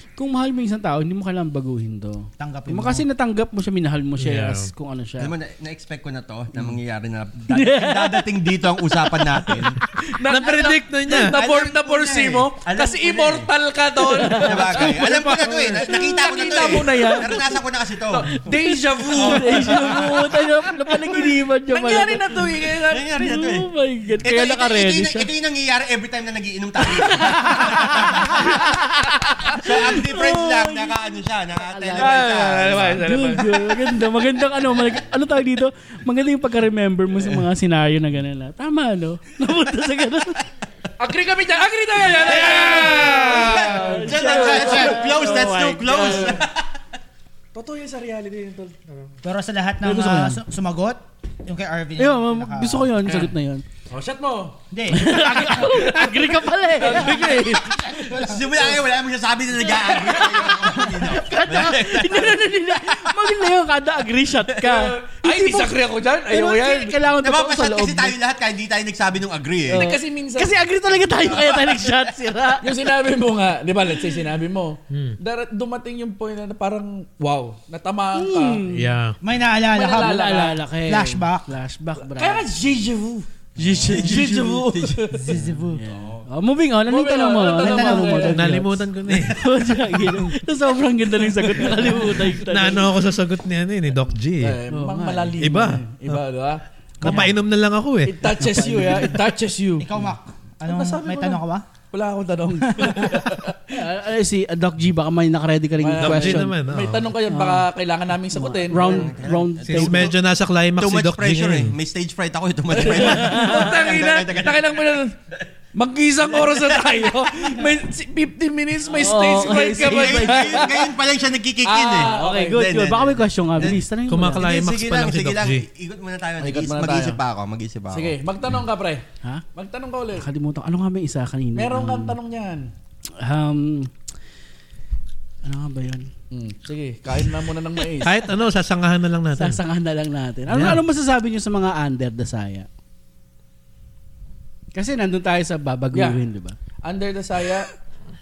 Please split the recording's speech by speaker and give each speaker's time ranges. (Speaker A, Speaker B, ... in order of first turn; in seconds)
Speaker A: 0.2-5.3, 7.5-8.3, 9.3-9.6, 14.0-15.9, 16.7-17.3, 18.5-22.4, 23.1-25.3, 26.8-31.0, 31.7-40.5, 43.2-46.3, 49.8-50.4, 52.0-53.6, 54.9-57.7, 59.9-60.2, 61.0-65.8, 66.3-68.2, 69.7-72.7, 78.2-78.9, 79.9-82.4, 83.6-84.8, 85.7-92.9, 94.7-95.4, 98.4-99.2, 103.7-106.5, 107.3-107.7, 108.3-110.1, 112.8-113.7, 118.9-120.7, 122.0-124.5, 130.2-132.2, 133.2-133.9, 135.4-136.1, 139.4-142.7, 144.7-146.6
Speaker B: 2.4-3.0, 44.4-44.9, 49.2-52.9, 54.7-55.8, 56.8-58.6, 79.2-80.2, 80.8-81.5, 85.1-85.8, 87.6-88.3, 97.0-97.3, 99.8-101.6, 102.6-103.4
Speaker C: 4.2-4.7, 10.3-11.4, 74.9-75.2, 78.7-79.2, 88.3-89.4, 92.4-94.6, 95.4-96.2, 97.0-98.2, 106.0-107.1, 109.7-111.8, 124.1-125.7, 138.0-139.6, 140.5-140.8
Speaker D: 5.2-9.8, 11.2-13.5, 14.3-18.4, 19.1-20.4, 22.8-23.7, 24.2-28.7, 29.5-33.1, 42.1-46.6, 58.2-63.2, 67.2-69.9, 83.7-85.4, 108.7-110.1, 110.8-114.8, 116.4-116.9, 119.6-123.8, 124.4-128.1
Speaker E: 10.1-17.6, 18.1-20.3, 20.9-23.1, 32.0-33.9, 41.0-46.4, 47.5-49.1, 53.9-58.1, 59.8-60.7, 64.6-67.0, 69.7-70.6, 72.6-78.6, 79.7-80.6, 82.1-83.3, 83.9-85.4, 85.9-86.3, 86.9-88.4, 91.4-92.1, 94.4-96.6, 98.1-99.9, 100.6-103.6, 105.8-109.1, 112.8-115.2, 115.7-120.9, 121.6-122.6, 126.4-127.2, 127.9-130.3, 131.6-132.7, 136.3-138.2, 145.9-146.2, 146.8-147.7